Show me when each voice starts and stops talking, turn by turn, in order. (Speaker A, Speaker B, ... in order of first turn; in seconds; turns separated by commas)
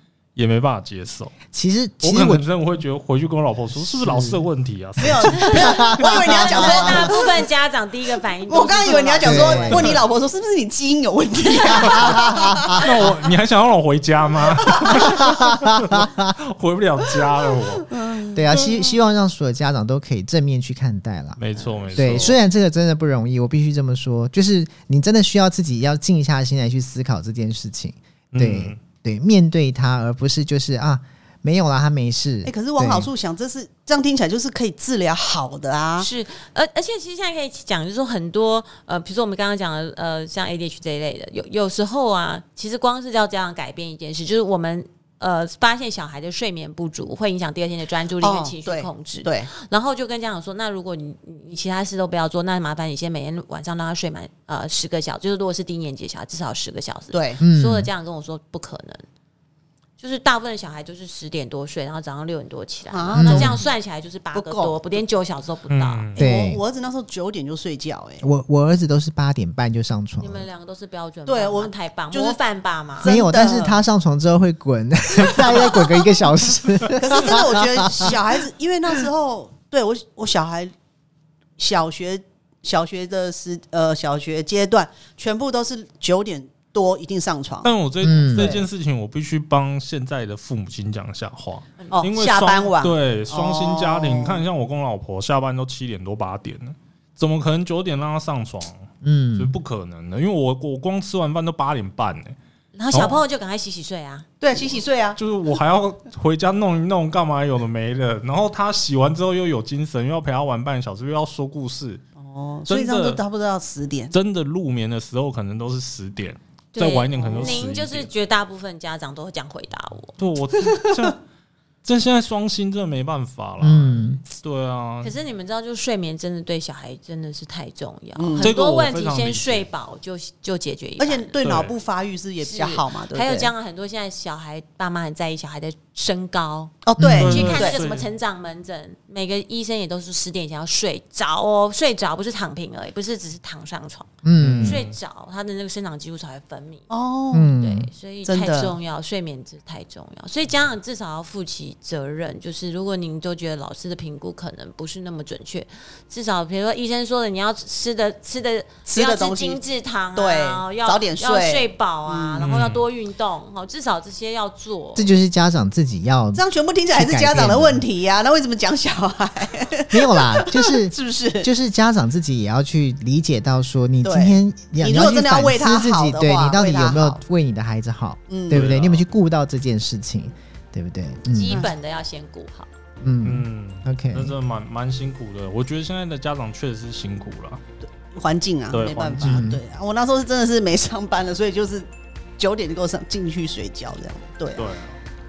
Speaker A: 0.4-1.3, Speaker B: 1.5-2.5, Speaker A: 2.0-5.5, Speaker B: 4.0-4.4, Speaker C: 5.0-7.3, Speaker B: 5.2-7.1, Speaker D: 5.4-10.0, Speaker C: 8.5-12.9, Speaker B: 9.2-10.0, Speaker B: 11.8-12.8, Speaker A: 12.8-17.9, Speaker C: 14.7-15.0, Speaker B: 14.9-16.3, Speaker C: 17.9-18.4, Speaker B: 18.3-21.4, Speaker A: 21.4-22.4, Speaker B: 21.9-33.1, Speaker A: 28.3-28.8, Speaker C: 32.5-36.1, Speaker D: 36.0-59.0, Speaker C: 48.2-49.5, Speaker C: 57.1-57.4, Speaker B: 57.4-57.9, Speaker D: 60.0-66.2, Speaker C: 62.9-63.7, Speaker B: 63.1-63.6, Speaker C: 64.3-64.8, Speaker A: 65.7-66.2, Speaker B: 66.2-66.6, Speaker C: 66.2-68.3, Speaker B: 68.2-70.5, Speaker D: 70.2-73.1, Speaker C: 71.3-72.4, Speaker C: 73.0-73.8, Speaker B: 73.0-78.1, Speaker C: 77.0-80.7, Speaker C: 81.6-87.7, Speaker A: 87.6-102.4, Speaker B: 88.0-88.5, Speaker C: 88.4-88.7, Speaker D: 91.8-92.0, Speaker C: 91.9-94.4, Speaker B: 99.0-99.5, Speaker D: 102.8-104.3, Speaker A: 102.9-103.2, Speaker C: 104.4-105.2, Speaker A: 105.2-112.0, Speaker C: 112.2-114.1, Speaker A: 112.7-113.2, Speaker A: 114.1-118.1, Speaker D: 116.8-120.2, Speaker C: 117.3-117.6, Speaker A: 120.2-121.2, Speaker C: 120.7-121.1, Speaker A: 121.8-125.1, Speaker B: 123.6-124.2, Speaker D: 125.0-131.4, Speaker C: 128.2-128.5, Speaker A: 128.4-129.7, Speaker C: 131.0-133.5, Speaker A: 131.4-131.7, Speaker D: 132.4-144.1, Speaker C: 136.8-137.8, Speaker B: 137.0-137.4, Speaker A: 137.2-138.1, Speaker B: 144.2-144.8, Speaker A: 144.4-145.0, Speaker D: 144.6-146.9, Speaker C: 146.9-147.5, Speaker B: 147.3-147.9, Speaker D: 147.6-165.1, Speaker C: 148.3-148.7, Speaker C: 158.9-159.6, Speaker C: 160.2-162.4, Speaker A: 162.4-162.8, Speaker B: 165.0-167.8, Speaker C: 166.3-171.5, Speaker B: 169.9-181.7, Speaker C: 174.0-177.2, Speaker C: 178.3-178.7, Speaker A: 178.5-179.0, Speaker D: 181.3-182.7, Speaker B: 183.0-184.4, Speaker A: 183.2-187.6, Speaker C: 187.8-191.9, Speaker A: 188.7-189.4, Speaker B: 189.2-189.6, Speaker C: 192.4-194.6, Speaker A: 194.6-195.0